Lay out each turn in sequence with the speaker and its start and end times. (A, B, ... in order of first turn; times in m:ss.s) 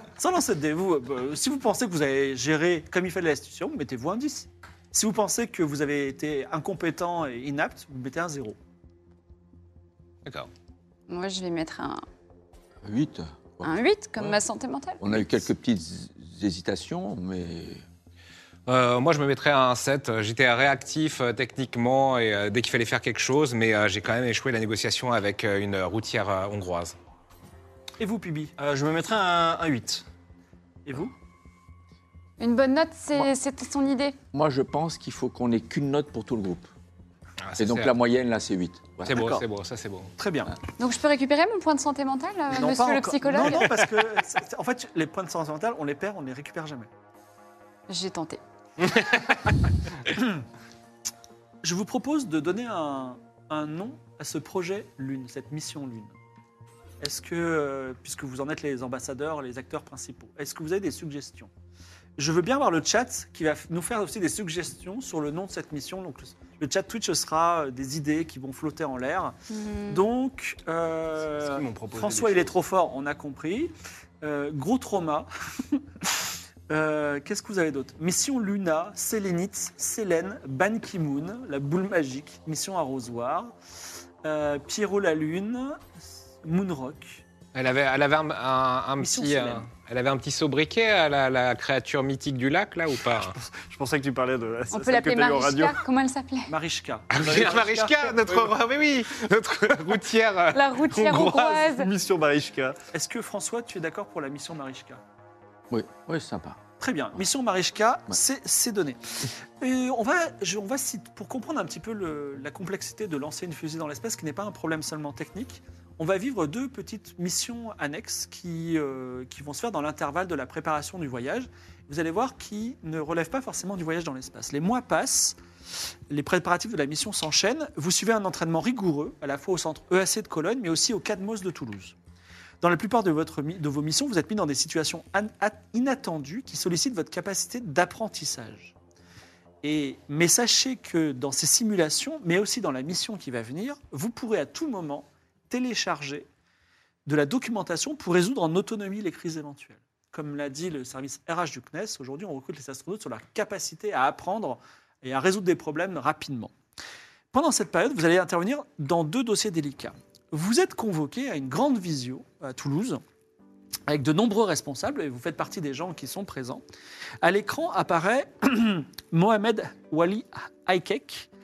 0:00.2-0:08.6 A
0:11.1-0:12.0 B
0:12.8-0:14.4 C
0:13.6-0:15.0 B
0:15.0-0:17.8 C
0:18.7-0:26.9 D
0:28.0-0:28.5 A
0:28.6-0:30.0 E
0:30.8-0:31.1 A
0:32.4-0:34.2 B
0:34.3-0:36.7 C
0:37.4-0:37.9 D
0:37.6-0:39.2 C
0:39.0-0:40.1 D
0:39.1-0:39.4 A
0:40.2-0:40.5 A
0:40.8-0:43.7 B
0:42.5-0:46.9 A
0:47.9-0:48.4 B
0:50.1-0:50.4 A
0:51.6-0:56.1 A
0:57.0-1:01.5 A
1:02.2-1:09.3 A
1:09.5-1:10.0 B
1:09.9-1:23.5 A
1:11.4-1:12.5 E
1:24.2-1:25.9 A
1:26.4-1:27.2 A
1:27.5-1:33.4 D
1:29.0-1:29.7 A
1:33.4-1:35.8 E
1:34.7-1:36.5 B
1:36.5-1:38.2 A
1:37.1-1:40.7 D
1:40.5-1:41.9 B
1:40.9-1:42.8 E
1:42.9-1:45.0 A
1:45.7-1:46.6 C
1:46.8-1:49.0 A
1:49.6-2:05.4 A
2:06.1-2:11.9 A
2:12.6-2:18.7 A
2:19.6-2:26.3 A
2:27.0-2:36.5 A
2:37.3-2:43.0 A
2:43.9-2:46.6 A
2:47.2-2:51.3 A